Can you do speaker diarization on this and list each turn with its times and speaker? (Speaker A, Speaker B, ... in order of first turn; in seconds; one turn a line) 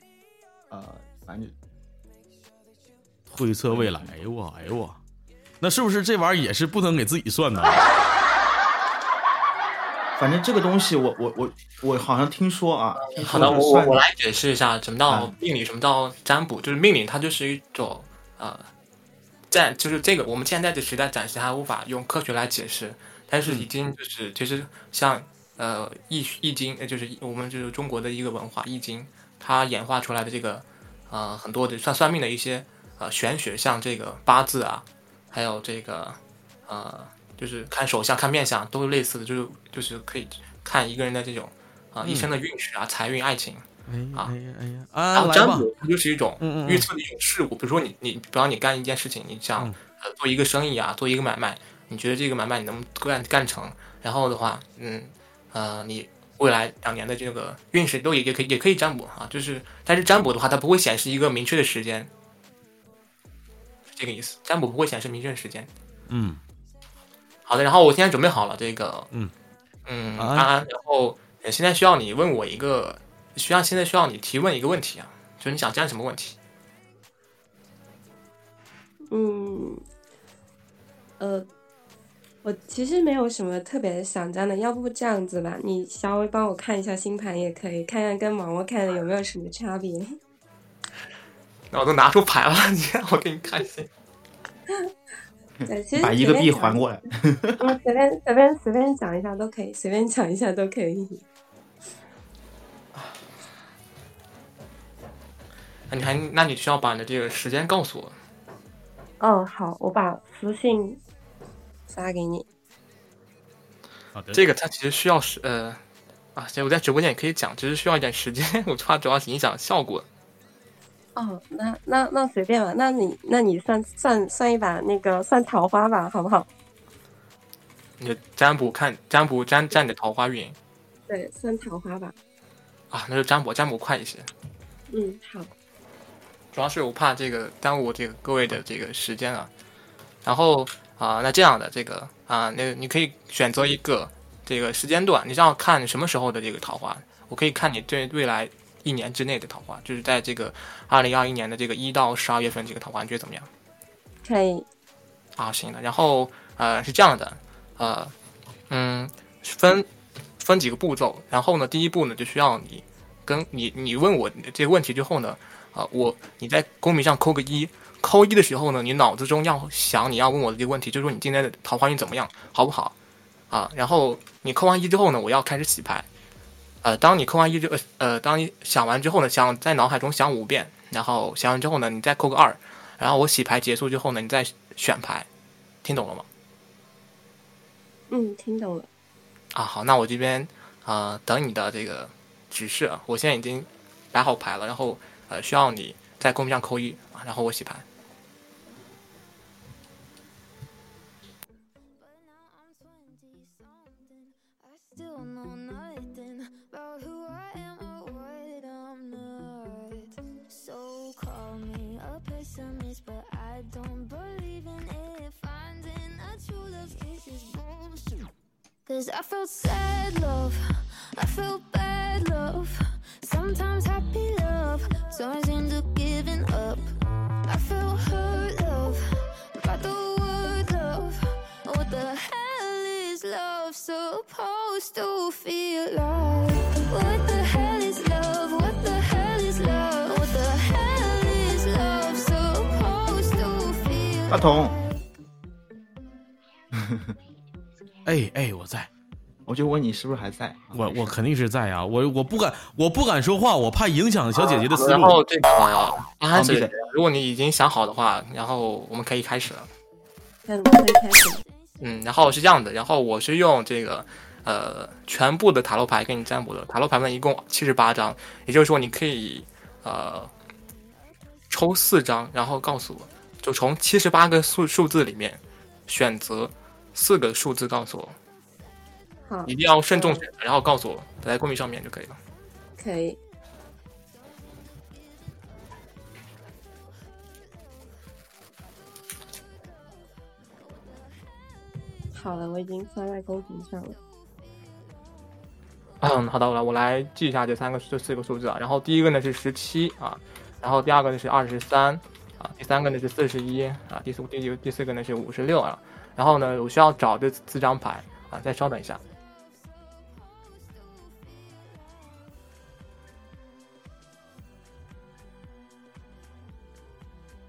Speaker A: 0.7-1.5
Speaker B: 3.3-5.0
Speaker A: 3.7-4.1
Speaker B: 5.6-7.8
Speaker A: 10.2-14.0
Speaker C: 13.0-18.7
Speaker A: 15.1-15.3
Speaker C: 19.5-44.3
Speaker B: 42.0-42.3
Speaker B: 43.9-45.7
Speaker C: 45.1-62.1
Speaker B: 46.4-46.9
Speaker C: 63.9-65.7
Speaker B: 66.1-66.4
Speaker C: 67.5-69.1
Speaker C: 69.9-76.4
Speaker B: 70.2-70.5
Speaker D: 79.1-79.8
Speaker D: 81.2-81.5
Speaker D: 82.4-90.2
Speaker C: 91.7-93.9
Speaker A: 95.6-97.6
Speaker D: 95.7-96.8
Speaker D: 97.6-101.2
Speaker C: 105.9-108.2
Speaker D: 109.2-111.0
Speaker D: 111.9-112.5
Speaker B: 114.2-114.4
Speaker C: 114.3-115.8
Speaker C: 116.3-120.1
Speaker D: 121.2-126.5
Speaker C: 128.0-130.6
Speaker D: 131.1-132.1
Speaker C: 132.9-134.3
Speaker D: 134.9-135.5
Speaker C: 136.5-139.5
Speaker C: 140.2-153.5
Speaker D: 154.2-154.7
Speaker C: 155.4-158.1
Speaker C: 158.7-159.9
Speaker C: 160.4-172.9
Speaker C: 173.5-176.1
Speaker C: 176.8-185.3
Speaker C: 185.8-186.3
Speaker D: 188.1-188.9
Speaker C: 189.5-197.9
Speaker E: 202.0-218.3
Speaker E: 218.9-220.6
Speaker E: 221.2-226.9
Speaker E: 227.5-244.9
Speaker A: 244.3-244.8
Speaker A: 246.7-247.1
Speaker B: 248.1-248.9
Speaker A: 249.5-251.2
Speaker B: 250.7-255.2
Speaker C: 254.9-259.7
Speaker A: 256.3-256.7
Speaker D: 260.5-261.4
Speaker C: 261.8-270.3
Speaker C: 271.5-278.2
Speaker D: 279.3-280.2
Speaker C: 279.5-282.2
Speaker D: 282.8-283.2
Speaker D: 292.1-294.0
Speaker C: 296.0-309.0
Speaker E: 310.2-312.2